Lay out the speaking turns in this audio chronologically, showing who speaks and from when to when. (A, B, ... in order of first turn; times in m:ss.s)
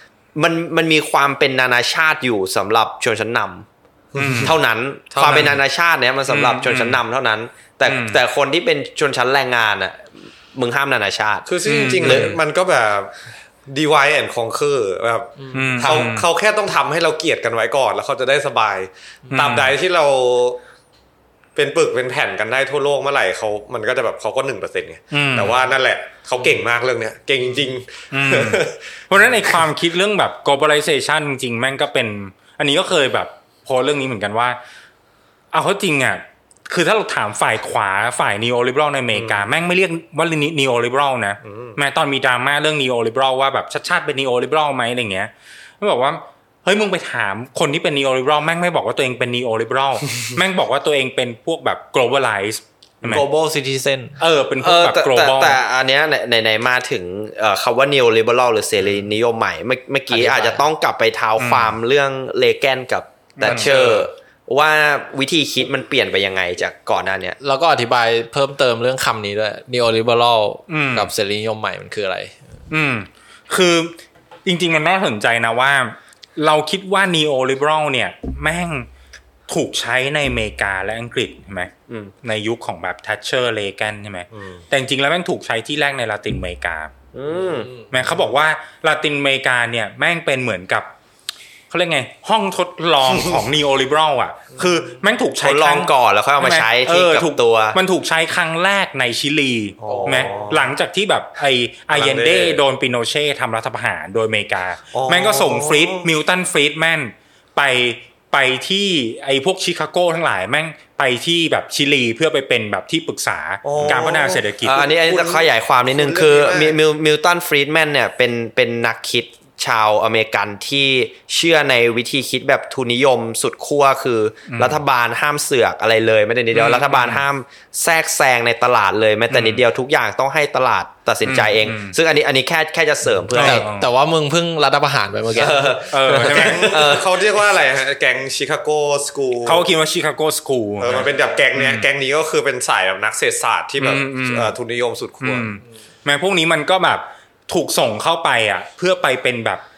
0:00.4-0:03.7 A
0:04.1-0:04.6 B
0:04.2-0:04.6 C
0:04.4-0:11.5 A
0:05.1-0:05.6 B
0:05.2-0:05.6 C
0:06.3-0:07.0 C
0:07.8-0:08.2 C
0:11.5-0:20.6 B
0:11.6-0:12.4 C
0:12.0-0:12.4 A
0:15.4-0:15.9 D
0:15.5-0:16.3 C
0:19.3-0:19.8 C
0:21.6-0:29.6 B
0:25.1-0:25.6 C
0:28.1-0:34.6 C
0:35.5-0:53.3 C
0:39.1-0:39.5 B
0:41.4-0:41.8 B
0:53.0-0:54.2 D
0:54.2-0:55.6 C
0:54.6-1:07.4 A
1:00.1-1:00.6 D
1:01.4-1:01.8 C
1:03.4-1:03.8 C
1:03.5-1:04.0 B
1:07.4-1:12.4 D
1:10.7-1:11.1 C
1:12.7-1:18.9 C
1:19.5-1:21.7 C
1:21.9-1:22.1 A
1:22.2-1:26.9 C
1:24.3-1:24.6 B
1:27.1-1:27.7 A
1:27.9-1:30.9 C
1:31.7-1:55.3 C
1:33.1-1:33.4 B
1:35.4-1:37.8 A
1:39.8-1:40.6 B
1:40.0-1:40.5 A
1:41.9-1:42.6 B
1:44.9-1:46.1 B
1:53.6-1:54.4 B
1:53.6-2:13.7 A
1:55.1-1:55.4 B
1:55.9-1:56.8 B
2:04.5-2:04.8 C
2:06.5-2:07.2 C
2:09.3-2:09.6 C
2:11.2-2:12.0 C
2:13.3-2:13.9 C
2:13.4-2:15.8 D
2:15.3-2:17.2 A
2:15.9-2:17.0 C
2:16.1-2:19.6 B
2:19.4-2:21.9 C
2:20.8-2:25.6 B
2:23.8-2:24.6 C
2:25.2-2:29.6 C